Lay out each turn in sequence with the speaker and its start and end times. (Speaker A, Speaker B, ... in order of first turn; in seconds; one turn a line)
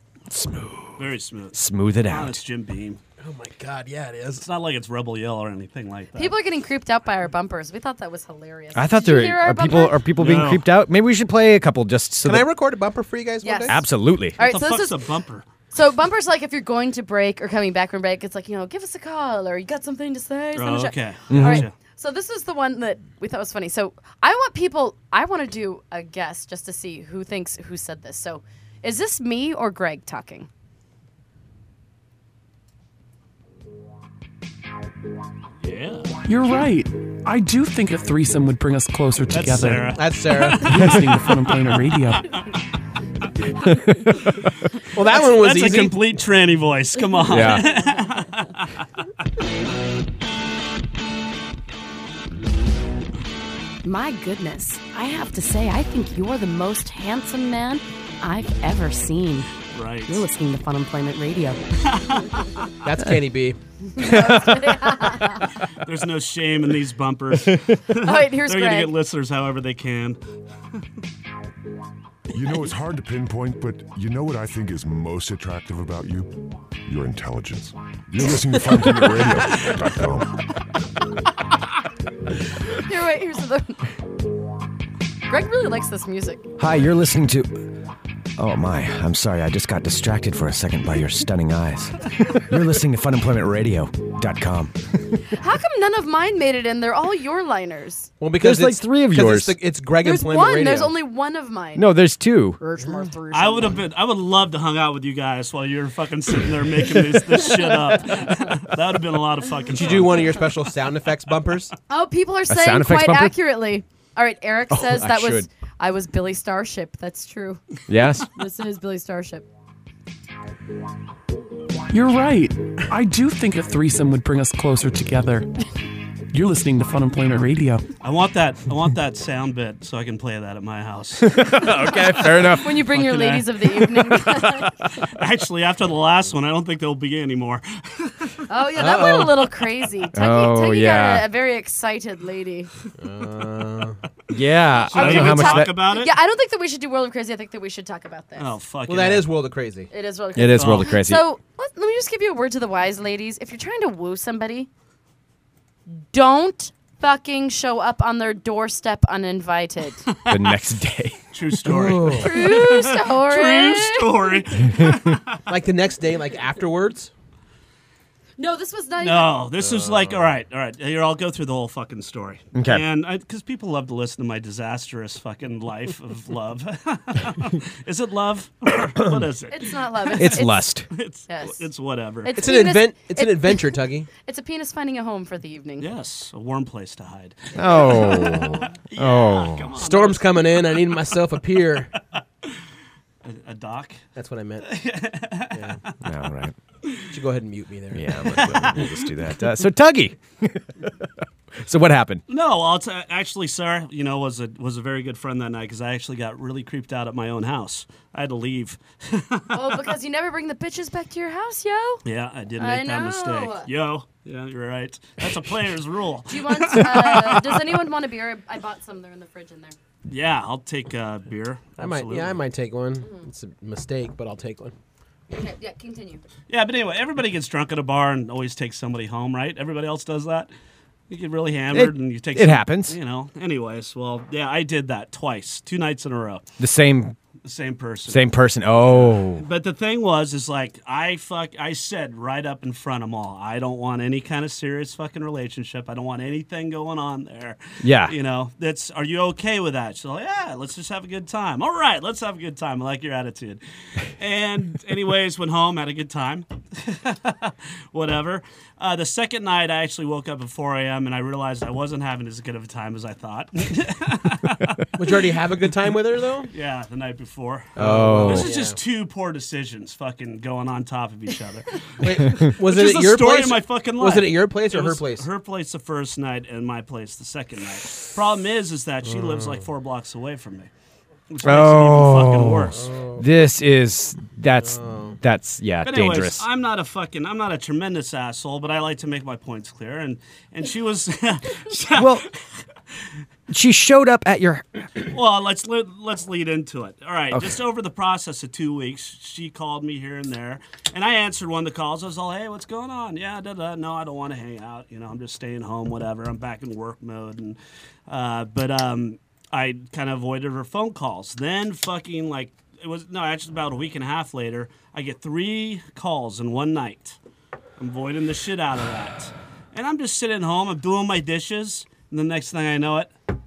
Speaker A: 0.3-2.4
Speaker B: 1.0-3.0
Speaker C: 3.2-4.4
Speaker B: 4.4-6.3
Speaker D: 6.2-10.0
Speaker A: 8.7-12.5
Speaker B: 10.2-10.7
Speaker C: 12.2-13.8
Speaker D: 13.4-13.8
Speaker A: 13.7-14.4
Speaker D: 14.4-15.0
Speaker B: 14.4-15.4
Speaker D: 15.7-30.5
Speaker B: 20.5-21.7
Speaker A: 21.3-21.6
Speaker B: 35.6-36.1
Speaker E: 36.2-40.0
Speaker B: 39.3-41.5
Speaker C: 39.9-41.0
Speaker E: 40.6-42.3
Speaker A: 43.9-44.1
Speaker C: 44.9-46.1
Speaker B: 45.0-48.7
Speaker A: 47.3-47.6
Speaker D: 53.8-59.5
Speaker B: 59.7-60.2
Speaker D: 60.1-61.7
Speaker B: 61.8-62.7
Speaker C: 62.8-63.6
Speaker D: 63.9-65.5
Speaker A: 64.0-64.7
Speaker B: 65.8-70.2
Speaker D: 68.0-68.9
Speaker F: 72.3-80.4
Speaker D: 82.7-83.9
Speaker D: 85.3-86.4
Speaker A: 86.6-87.7
Speaker A: 88.4-94.7
Speaker D: 95.3-98.1
Speaker C: 98.2-100.9
Speaker A: 98.4-99.5
Speaker D: 100.0-101.9
Speaker A: 101.8-102.6
Speaker D: 102.6-103.8
Speaker B: 103.3-110.5
Speaker C: 109.7-111.7
Speaker D: 111.9-117.6
Speaker A: 112.5-113.3
Speaker A: 114.7-115.5
Speaker A: 117.9-118.3
Speaker D: 118.3-119.5
Speaker E: 121.9-125.5
Speaker E: 126.3-127.8
Speaker B: 128.0-138.3
Speaker A: 131.2-132.8
Speaker D: 132.5-134.7
Speaker D: 138.5-142.7
Speaker C: 138.8-139.4
Speaker A: 140.1-141.2
Speaker C: 143.0-144.0
Speaker A: 144.3-145.8
Speaker B: 144.9-146.1
Speaker D: 144.9-148.5
Speaker B: 148.4-149.3
Speaker C: 148.9-149.9
Speaker D: 149.9-154.7
Speaker A: 150.3-151.2
Speaker B: 150.5-150.9
Speaker D: 156.1-160.0
Speaker B: 160.2-160.6
Speaker A: 160.3-161.2
Speaker B: 161.3-165.4
Speaker C: 161.7-162.3
Speaker D: 162.2-164.4
Speaker C: 165.5-167.1
Speaker D: 168.4-169.4
Speaker B: 169.0-182.4
Speaker C: 169.6-170.3
Speaker A: 172.5-172.8
Speaker D: 179.5-181.7
Speaker A: 180.2-180.9
Speaker D: 182.2-185.9
Speaker C: 182.3-184.1
Speaker B: 185.8-191.0
Speaker A: 187.5-189.7
Speaker C: 189.8-191.9
Speaker B: 193.2-194.0
Speaker C: 194.1-194.7
Speaker B: 194.6-195.9
Speaker C: 195.5-195.8
Speaker A: 196.0-196.5
Speaker C: 197.1-198.7
Speaker A: 197.9-201.1
Speaker B: 198.2-199.1
Speaker A: 201.6-202.2
Speaker B: 202.3-209.8
Speaker D: 209.5-212.0
Speaker B: 212.0-217.8
Speaker D: 212.6-213.7
Speaker D: 216.3-219.8
Speaker B: 220.1-222.4
Speaker C: 221.8-224.7
Speaker D: 225.3-226.2
Speaker B: 226.5-230.5
Speaker B: 231.1-236.4
Speaker A: 231.7-233.0
Speaker A: 236.6-237.2
Speaker B: 237.4-253.6
Speaker A: 238.1-239.4
Speaker A: 247.8-248.1
Speaker B: 254.2-265.1
Speaker C: 264.9-266.5
Speaker B: 266.5-280.7
Speaker A: 267.8-268.5
Speaker C: 267.8-268.8
Speaker C: 272.0-275.3
Speaker C: 279.0-279.6
Speaker B: 281.3-282.8
Speaker A: 281.4-286.4
Speaker C: 282.7-283.5
Speaker C: 284.6-285.2
Speaker B: 285.8-292.3
Speaker A: 291.9-292.2
Speaker A: 293.5-294.9
Speaker B: 295.1-317.2
Speaker A: 297.3-297.6
Speaker B: 317.8-323.1